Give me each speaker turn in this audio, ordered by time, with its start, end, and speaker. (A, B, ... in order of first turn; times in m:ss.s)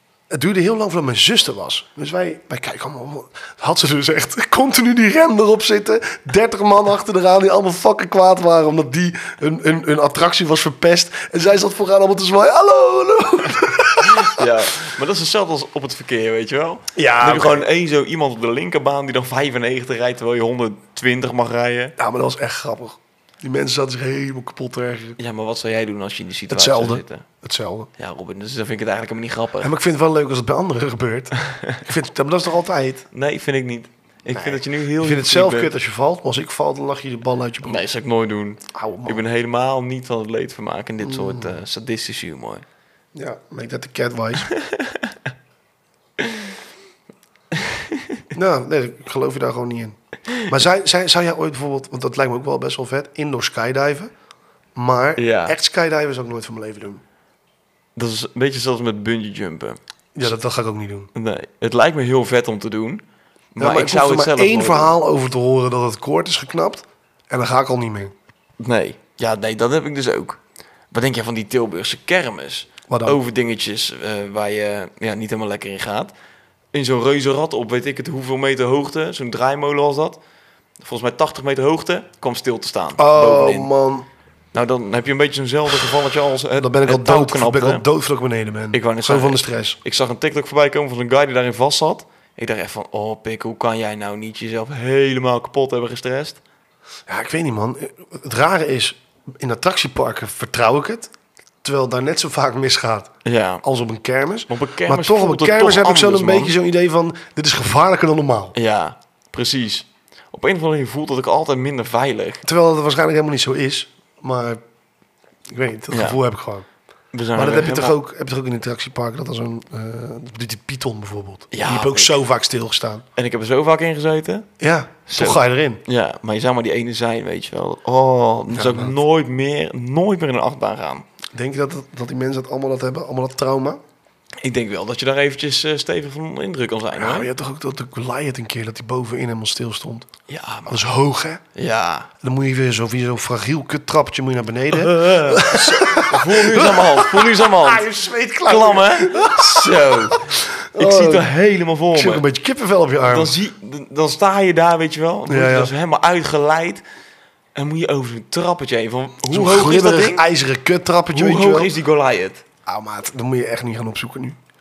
0:00.3-0:14.4 A
0:14.0-0:22.0 B
0:16.9-0:17.6 A
0:22.0-0:25.2 A
0:25.2-0:27.2 B
0:26.5-0:27.9 A
0:28.0-0:29.7 B
0:29.6-0:33.0 A
0:31.4-0:31.8 B
0:33.1-0:35.7 B
0:34.3-0:37.8 A
0:37.6-0:42.6 B
0:38.7-0:39.2 A
0:41.0-0:41.6 A
0:43.1-0:44.5 A
0:44.5-0:45.2 B
0:46.2-0:46.5 B
0:47.5-0:48.2 B
0:48.3-0:54.1 A
0:54.8-0:57.0 A
0:55.2-0:55.5 B
0:58.0-0:59.8 B
1:00.1-1:01.1 A
1:01.1-1:03.0 B
1:03.5-1:04.9 B
1:03.6-1:08.1 A
1:08.6-1:10.4 B
1:10.9-1:16.1 B
1:12.9-1:13.2 A
1:16.7-1:20.2 B
1:20.8-1:23.7 B
1:23.0-1:24.0 A
1:24.5-1:27.8 B
1:26.6-1:29.8 A
1:28.7-1:36.4 B
1:37.1-1:48.5 A
1:43.2-1:43.6 B
1:44.5-1:46.5 B
1:48.5-1:52.4 B
1:52.4-1:54.6 A
1:55.5-1:56.6 A
1:55.9-1:56.2 B
1:57.1-1:58.0 B
1:57.3-2:03.0 A
2:01.5-2:02.2 B
2:03.2-2:04.5 B
2:04.6-2:05.8 A
2:05.1-2:11.1 B
2:08.5-2:09.0 A
2:11.3-2:13.8 A
2:14.4-2:17.3 B
2:17.0-2:20.1 A
2:20.3-2:20.8 B
2:20.7-2:21.4 A
2:21.5-2:22.1 B
2:22.2-2:31.3 A
2:24.7-2:27.8 B
2:28.4-2:32.2 B
2:31.9-2:33.3 A
2:33.0-2:36.8 B
2:35.3-2:35.7 A
2:37.6-2:40.2 B
2:39.3-2:41.7 A
2:41.1-2:42.4 B
2:42.6-2:44.4 A